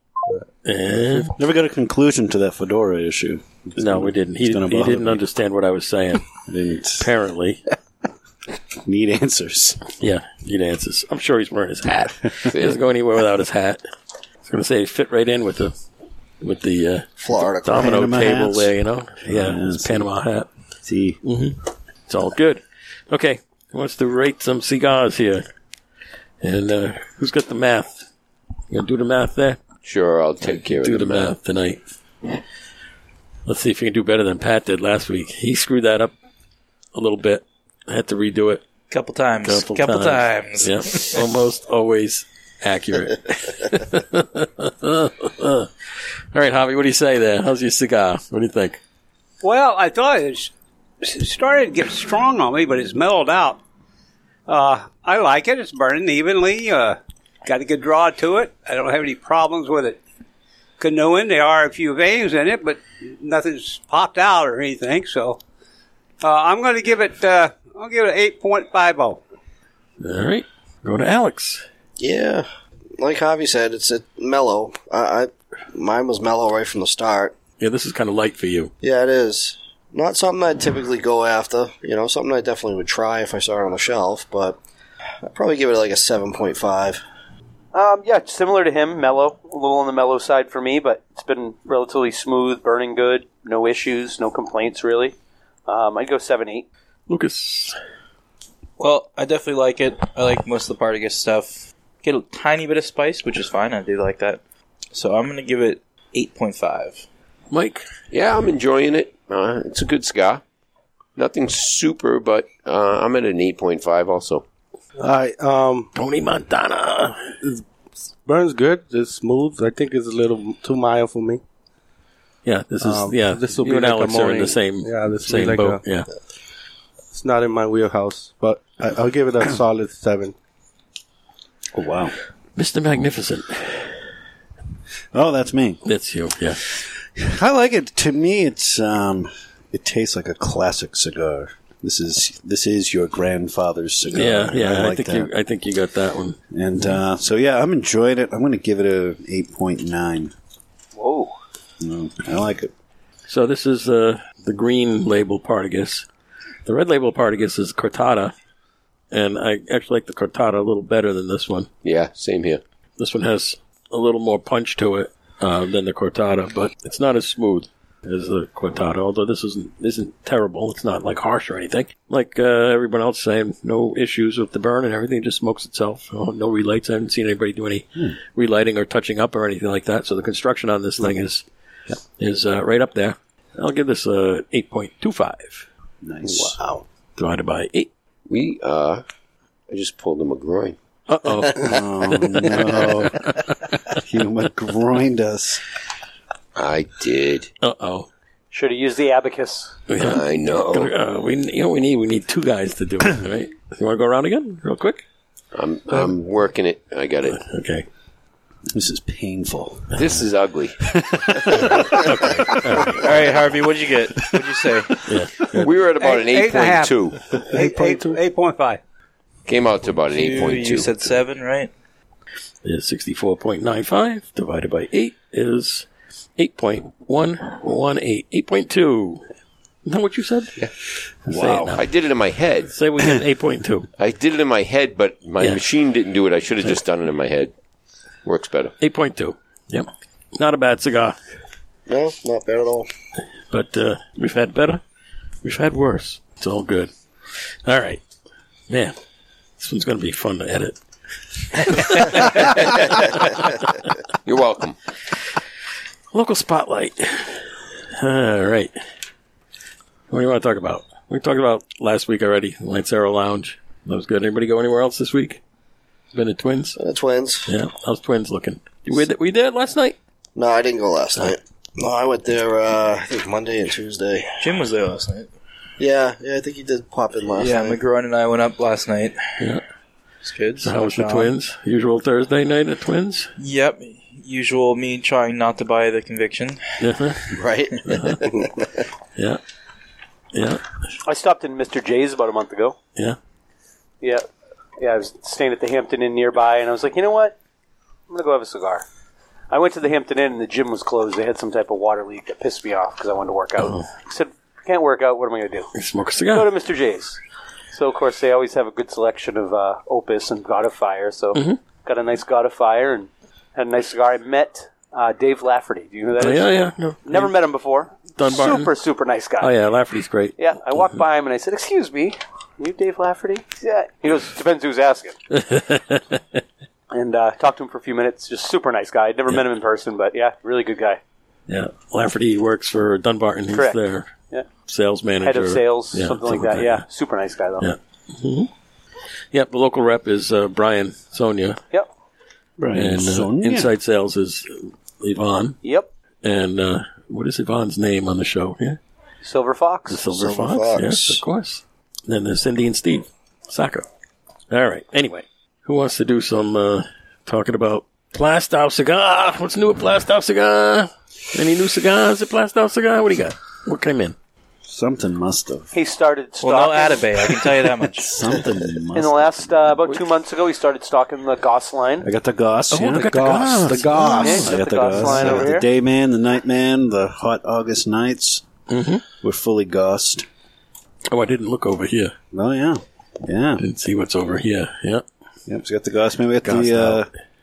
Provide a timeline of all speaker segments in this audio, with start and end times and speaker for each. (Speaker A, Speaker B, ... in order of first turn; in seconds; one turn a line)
Speaker A: 0.6-1.3
Speaker B: 1.3-5.2
Speaker A: 3.8-6.3
Speaker B: 6.5-7.1
Speaker A: 7.0-7.6
Speaker B: 8.9-9.8
Speaker A: 9.9-13.8
Speaker C: 11.9-12.8
Speaker A: 14.4-15.8
Speaker A: 16.4-20.5
Speaker D: 17.2-18.0
Speaker B: 17.7-20.1
Speaker B: 20.8-21.2
Speaker A: 21.2-25.4
Speaker A: 26.4-28.1
Speaker A: 28.7-29.6
Speaker C: 29.8-31.3
Speaker A: 30.5-31.8
Speaker A: 33.5-36.1
Speaker A: 37.0-38.6
Speaker E: 38.9-41.2
Speaker A: 39.4-48.8
Speaker F: 49.4-53.6
Speaker F: 54.5-60.0
Speaker F: 60.8-65.4
Speaker F: 66.2-69.2
Speaker A: 70.0-71.6
Speaker D: 72.0-72.5
Speaker D: 73.0-77.3
Speaker A: 77.6-78.7
Speaker D: 78.8-84.6
Speaker D: 85.2-87.0
Speaker G: 87.7-95.2
Speaker G: 95.7-96.7
Speaker A: 97.1-97.8
Speaker E: 98.8-104.4
Speaker E: 104.9-107.0
Speaker A: 107.5-107.9
Speaker C: 108.1-110.4
Speaker C: 111.2-114.5
Speaker H: 115.0-115.9
Speaker A: 115.9-117.4
Speaker H: 118.2-121.4
Speaker A: 122.5-126.1
Speaker H: 122.8-125.8
Speaker H: 127.1-130.3
Speaker B: 131.7-132.2
Speaker A: 132.6-133.9
Speaker B: 135.1-135.8
Speaker A: 135.8-136.6
Speaker B: 137.2-145.3
Speaker A: 144.1-147.0
Speaker B: 146.5-150.3
Speaker G: 151.0-151.3
Speaker B: 151.8-152.7
Speaker A: 153.3-156.1
Speaker A: 156.7-158.3
Speaker A: 159.1-161.7
Speaker C: 161.8-162.6
Speaker A: 163.0-181.4
Speaker A: 182.2-185.7
Speaker B: 186.0-186.7
Speaker A: 187.2-187.9
Speaker C: 188.3-189.0
Speaker C: 189.7-190.8
Speaker A: 191.1-191.8
Speaker B: 191.6-193.3
Speaker B: 194.1-195.6
Speaker C: 196.6-197.5
Speaker A: 197.6-198.1
Speaker G: 198.5-199.8
Speaker A: 199.9-205.0
Speaker C: 200.0-200.9
Speaker C: 205.5-207.4
Speaker A: 207.3-207.9
Speaker B: 208.8-209.9
Speaker C: 209.9-210.8
Speaker B: 210.9-212.6
Speaker A: 211.5-213.1
Speaker E: 212.9-215.0
Speaker A: 215.0-215.7
Speaker C: 215.6-217.2
Speaker F: 216.0-218.8
Speaker H: 217.5-218.2
Speaker C: 219.5-221.1
Speaker E: 220.1-221.7
Speaker A: 222.7-229.2
Speaker A: 229.8-230.6
Speaker A: 231.3-231.8
Speaker B: 231.3-231.8
Speaker C: 231.7-232.7
Speaker A: 232.7-233.9
Speaker C: 234.0-237.5
Speaker C: 238.2-238.7
Speaker A: 238.8-241.2
Speaker D: 241.9-242.9
Speaker A: 243.5-244.8
Speaker A: 245.4-246.9
Speaker A: 247.6-248.0
Speaker A: 248.7-248.9
Speaker A: 249.6-250.8
Speaker A: 251.6-253.7
Speaker C: 254.2-254.8
Speaker A: 256.1-258.7
Speaker A: 260.1-265.4
Speaker A: 266.1-266.8
Speaker D: 266.8-267.5
Speaker A: 267.5-270.0
Speaker D: 270.4-274.5
Speaker E: 274.4-275.3
Speaker D: 275.8-277.8
Speaker E: 277.4-279.4
Speaker E: 280.2-281.3
Speaker A: 280.6-283.3
Speaker E: 283.4-286.7
Speaker A: 286.8-287.3
Speaker D: 287.3-288.7
Speaker A: 287.9-288.2
Speaker A: 290.3-290.6
Speaker G: 291.0-292.8
Speaker G: 294.0-294.3
Speaker G: 294.8-297.4
Speaker G: 298.1-298.9
Speaker G: 299.5-305.7
Speaker A: 303.6-303.9
Speaker A: 305.8-306.5
Speaker G: 306.3-307.2
Speaker G: 307.7-316.5
Speaker A: 311.3-311.6
Speaker A: 316.2-317.3
Speaker G: 317.1-319.5
Speaker A: 318.2-318.7
Speaker A: 319.4-320.9
Speaker G: 320.4-325.1
Speaker A: 325.3-326.4
Speaker G: 326.9-331.0
Speaker A: 331.5-334.1
Speaker G: 333.5-333.8
Speaker A: 334.7-336.9
Speaker G: 335.2-337.7
Speaker A: 337.6-338.5
Speaker A: 339.3-341.6
Speaker B: 342.6-343.7
Speaker A: 342.8-345.6
Speaker G: 345.6-345.9
Speaker A: 346.2-348.8
Speaker G: 349.2-350.0
Speaker A: 349.9-353.9
Speaker D: 350.1-351.2
Speaker A: 354.5-364.2
Speaker B: 364.6-365.7
Speaker G: 365.7-367.1
Speaker E: 366.4-368.1
Speaker B: 367.9-369.7
Speaker G: 368.9-372.1
Speaker B: 372.0-378.4
Speaker A: 372.7-374.3
Speaker H: 372.9-375.4
Speaker G: 374.0-375.7
Speaker A: 378.7-379.0
Speaker B: 379.2-380.3
Speaker A: 381.1-382.1
Speaker B: 382.3-383.6
Speaker A: 383.6-385.1
Speaker B: 385.5-387.1
Speaker A: 386.4-387.0